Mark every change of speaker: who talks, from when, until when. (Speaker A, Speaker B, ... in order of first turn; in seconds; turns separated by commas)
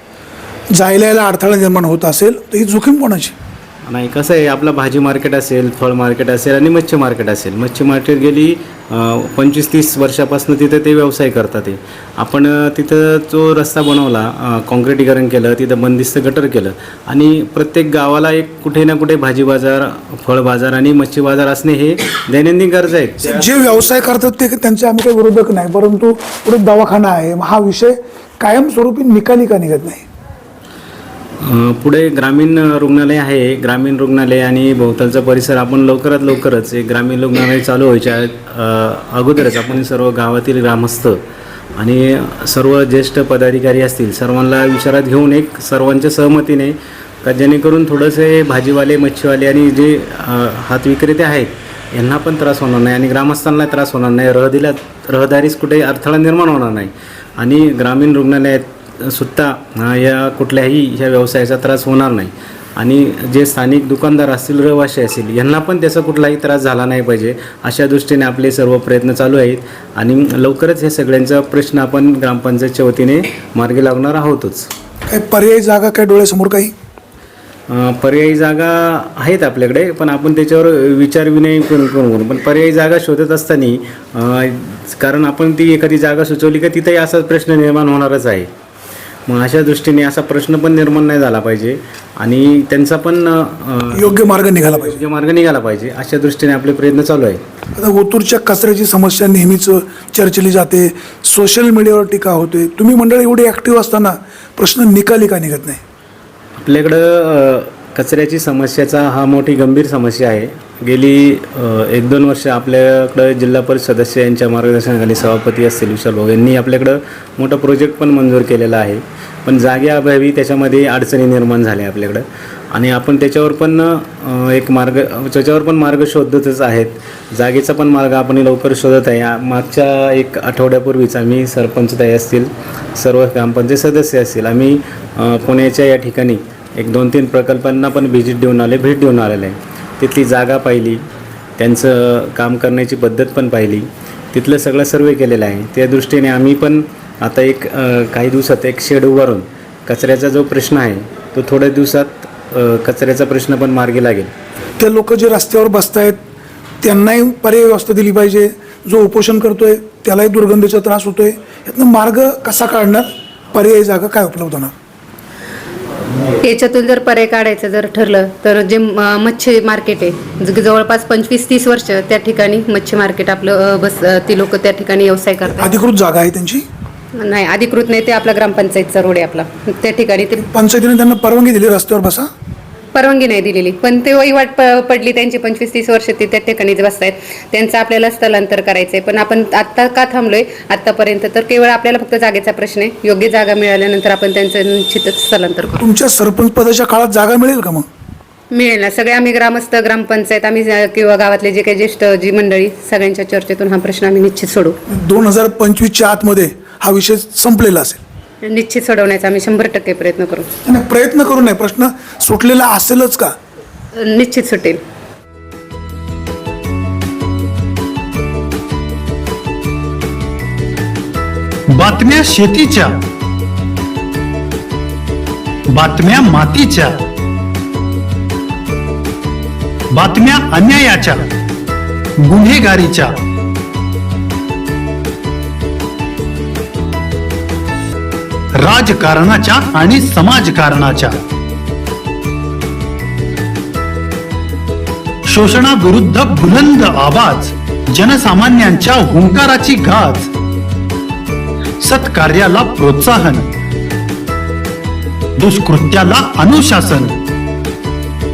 Speaker A: 0.7-3.3, Speaker B: 3.9-23.8, Speaker A: 23.2-30.1, Speaker B: 31.4-41.2, Speaker B: 41.8-74.7, Speaker A: 75.1-76.7, Speaker B: 77.7-88.5, Speaker B: 89.3-97.4, Speaker A: 93.9-95.0, Speaker A: 97.8-105.8, Speaker B: 106.6-141.0, Speaker B: 141.6-154.3, Speaker A: 154.8-156.2, Speaker A: 156.8-164.7, Speaker C: 166.4-175.7, Speaker A: 175.6-176.6, Speaker C: 177.2-180.4, Speaker A: 180.4-182.3, Speaker C: 182.9-195.9, Speaker A: 195.8-197.9, Speaker C: 198.5-204.8, Speaker A: 204.9-208.0, Speaker C: 208.4-210.5, Speaker A: 210.6-213.3, Speaker C: 213.9-214.8, Speaker D: 221.7-223.0, Speaker D: 225.7-227.1, Speaker D: 229.9-231.3, Speaker D: 232.2-233.2, Speaker D: 238.6-241.2, Speaker D: 245.3-250.3, Speaker D: 251.8-253.5, Speaker D: 255.4-257.2